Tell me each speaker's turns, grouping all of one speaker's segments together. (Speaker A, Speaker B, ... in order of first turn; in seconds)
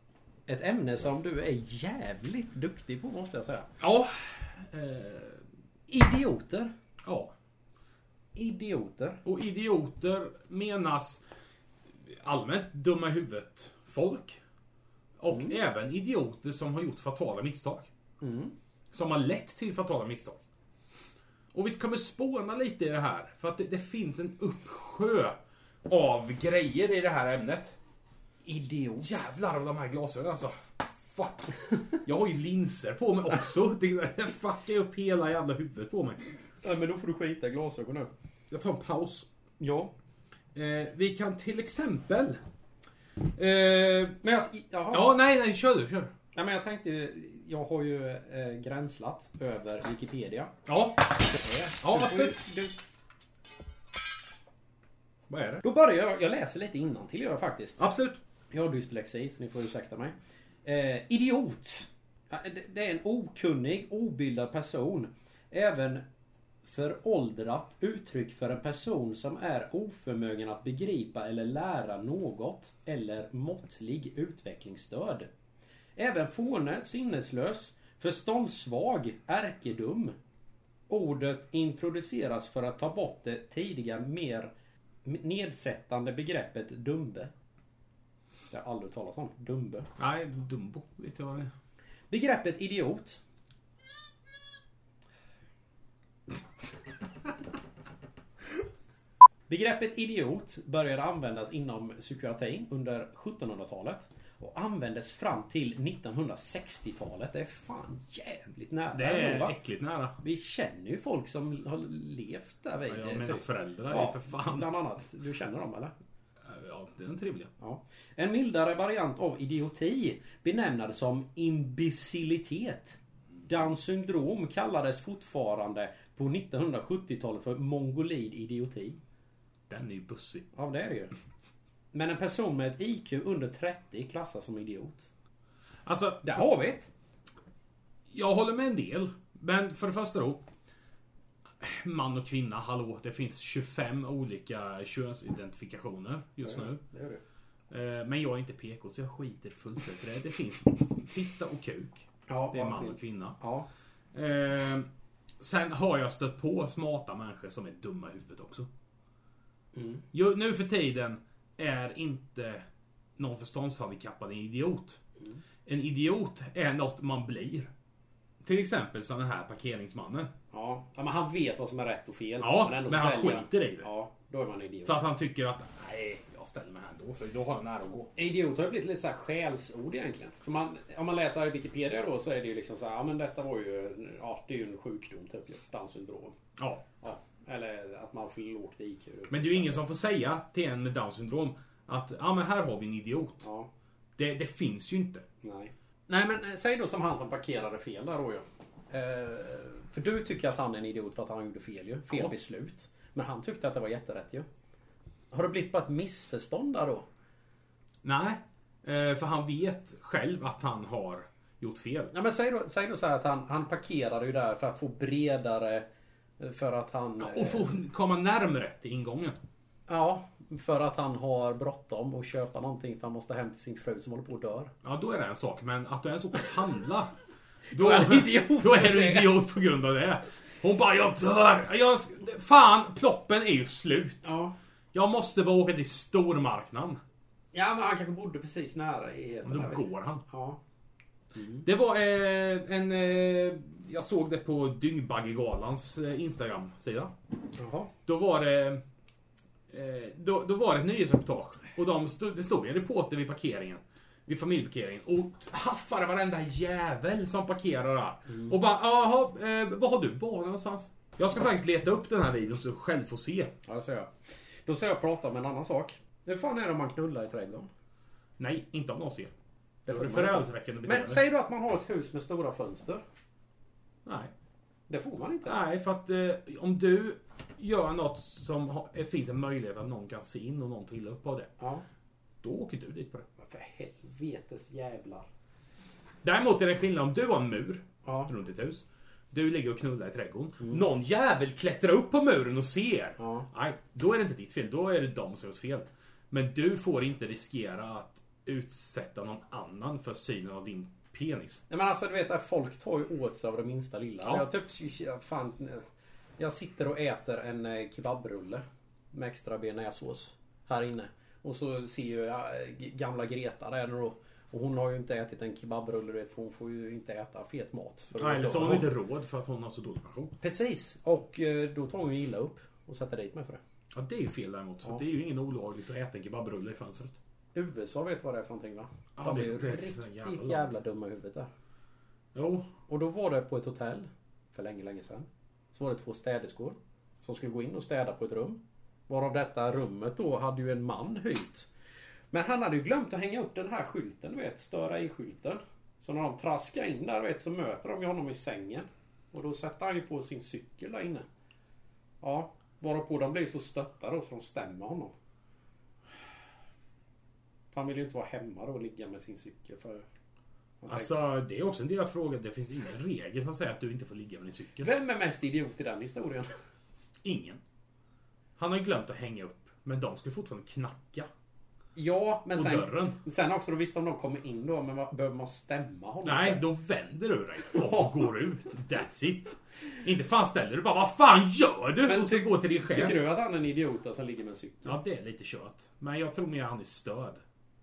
Speaker A: 0.5-3.7, 5.9-6.7, 8.3-9.2, 15.3-15.6, 18.2-18.6, 28.4-29.2, 36.6-38.1, 39.6-39.9, 44.2-45.1, 46.3-50.5, 51.4-52.8, 55.6-57.8, 58.5-66.0, 66.6-75.3, 76.0-80.2, 80.9-84.5, 85.0-87.3, 88.5-89.9, 92.1-93.2, 99.5-109.6, 110.2-115.9, 117.6-123.0, 123.5-129.0, 130.5-131.1, 131.9-135.1, 136.2-136.9, 146.4-147.2, 152.3-153.7, 159.7-160.1, 170.5-175.1, 178.2-186.4, 187.0-189.8, 193.4-193.7, 195.4-204.5, 205.3-207.1, 212.1-215.9, 216.4-217.7, 219.9-224.7, 227.7-229.4, 234.2-234.5, 237.5-240.6, 241.3-241.7, 247.6-247.9, 258.3-258.5, 263.7-264.1, 264.7-267.7, 269.9-273.0, 274.9-275.6, 283.4-285.3, 288.1-288.3, 293.2-293.5, 301.7-305.9, 306.4-318.9, 320.4-323.6, 327.6-331.5, 332.9-341.7, 342.3-351.3, 352.2-355.1, 357.7-360.1, 360.8-361.1, 364.8-366.5, 372.0-376.6, 377.8-378.1, 382.1-385.0
Speaker B: 3.8-5.4, 7.0-7.3, 9.2-11.2, 12.1-14.4, 15.2-17.9, 18.9-20.4, 21.5-27.8, 29.0-36.2, 38.5-39.3, 40.5-42.4, 43.4-44.2, 44.9-46.1, 50.7-52.4, 55.3-55.6, 57.8-58.2, 90.0-91.5, 108.9-110.2, 112.9-114.7, 116.4-117.5, 129.7-130.5, 135.8-136.5, 138.1-140.5, 141.6-146.8, 147.7-153.4, 154.1-154.9, 155.4-158.7, 160.1-162.7, 163.2-165.0, 165.7-167.7, 168.4-170.3, 172.4-173.9, 174.8-178.1, 186.6-186.9, 189.3-193.5, 194.2-195.2, 208.0-212.1, 217.2-219.4, 224.8-227.2, 227.7-234.3, 234.9-237.0, 239.4-240.2, 241.6-247.1, 248.1-248.8, 249.7-263.5, 268.4-269.3, 269.9-271.2, 274.1-274.3, 275.4-281.5, 282.4-283.2, 286.2-301.6, 304.2-304.5, 318.2-320.4, 323.9-327.2, 329.2-330.7, 332.4-332.7, 360.9-364.9, 367.2-367.6, 368.6-371.3, 372.5-373.2, 376.2-383.2, 384.9-387.4